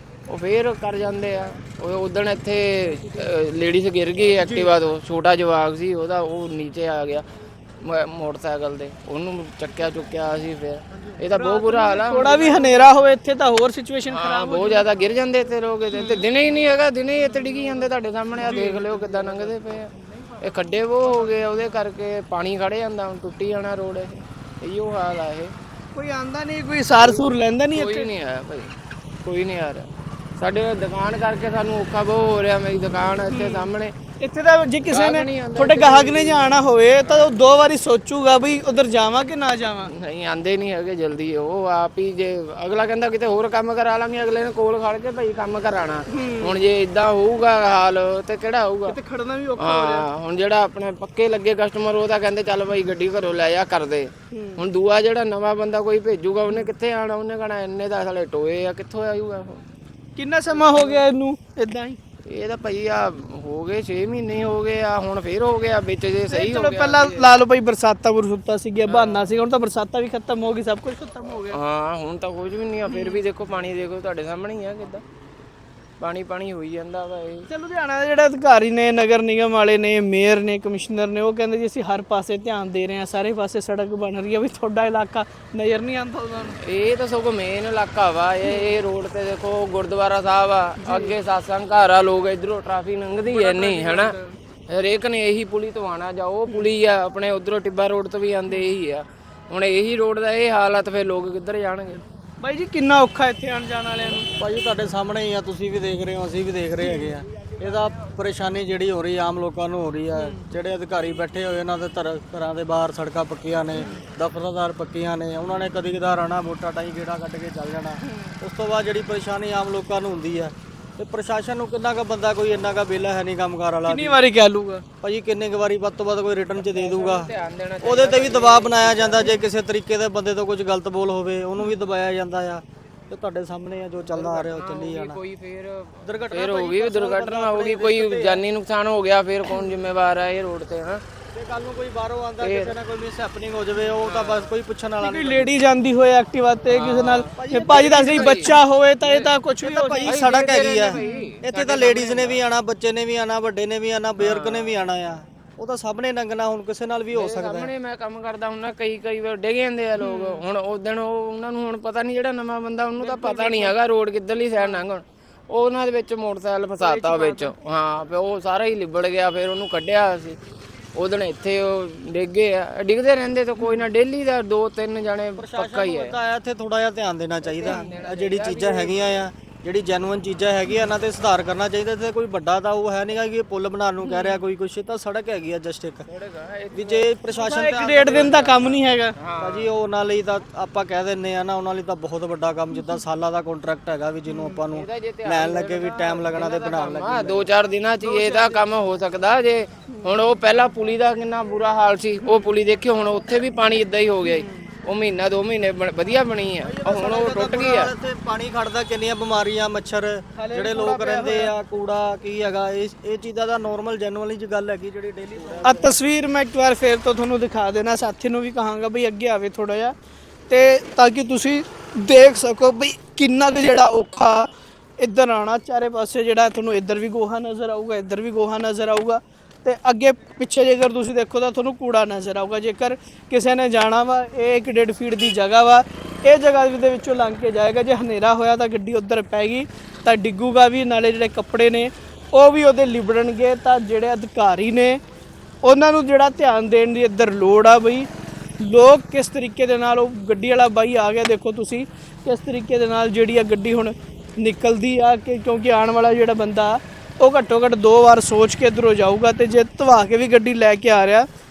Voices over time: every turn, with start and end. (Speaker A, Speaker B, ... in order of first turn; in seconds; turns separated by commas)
Speaker A: 0.3-7.2, Speaker B: 4.4-4.7, Speaker A: 7.8-12.9, Speaker B: 11.3-15.0, Speaker A: 14.1-25.5, Speaker B: 15.9-16.2, Speaker B: 17.3-17.8, Speaker B: 18.4-19.3, Speaker B: 21.0-21.7, Speaker B: 25.9-28.1, Speaker A: 27.0-28.7, Speaker A: 29.2-34.0, Speaker B: 33.3-39.9, Speaker A: 34.9-37.4, Speaker A: 39.9-49.0, Speaker B: 46.1-46.6, Speaker B: 48.9-50.1, Speaker A: 49.6-59.6, Speaker B: 54.3-54.6, Speaker B: 60.1-62.0, Speaker A: 60.5-61.0, Speaker A: 62.3-67.3, Speaker B: 66.3-71.6, Speaker A: 68.9-69.3, Speaker A: 71.5-75.0, Speaker B: 72.9-73.2, Speaker A: 76.0-77.5, Speaker B: 77.5-86.6, Speaker A: 86.7-94.2, Speaker B: 88.4-88.7, Speaker B: 90.8-91.1, Speaker B: 93.2-94.3, Speaker A: 94.7-102.0, Speaker B: 102.4-104.3, Speaker C: 104.4-124.2, Speaker B: 106.8-107.2, Speaker B: 110.1-110.5, Speaker B: 113.8-114.0, Speaker B: 118.1-118.3, Speaker B: 123.8-124.8, Speaker C: 125.0-135.2, Speaker A: 126.5-129.4, Speaker A: 134.0-141.0, Speaker C: 136.0-138.4, Speaker C: 141.3-145.5, Speaker A: 142.4-142.7, Speaker A: 144.0-144.5, Speaker B: 145.0-151.4, Speaker A: 146.7-149.3, Speaker C: 147.3-148.6, Speaker C: 149.6-157.7, Speaker A: 150.0-152.4, Speaker A: 154.2-154.9, Speaker A: 157.1-170.4, Speaker B: 160.0-160.4, Speaker B: 163.0-163.7, Speaker B: 164.6-164.8, Speaker B: 166.8-167.5, Speaker A: 170.9-176.2, Speaker B: 173.6-173.9, Speaker C: 175.4-186.1, Speaker A: 177.4-179.3, Speaker B: 184.0-184.4, Speaker A: 186.1-187.1, Speaker C: 186.7-188.8, Speaker B: 187.3-189.2, Speaker A: 188.0-189.7, Speaker C: 189.4-197.5, Speaker B: 194.3-194.6, Speaker A: 194.7-207.9, Speaker B: 198.0-198.6, Speaker B: 202.2-202.5, Speaker B: 204.2-204.7, Speaker C: 206.6-215.9, Speaker B: 210.3-211.5, Speaker A: 215.4-215.8, Speaker B: 215.6-219.9, Speaker B: 220.5-224.5, Speaker B: 225.0-245.0, Speaker B: 245.6-248.1, Speaker B: 248.6-261.3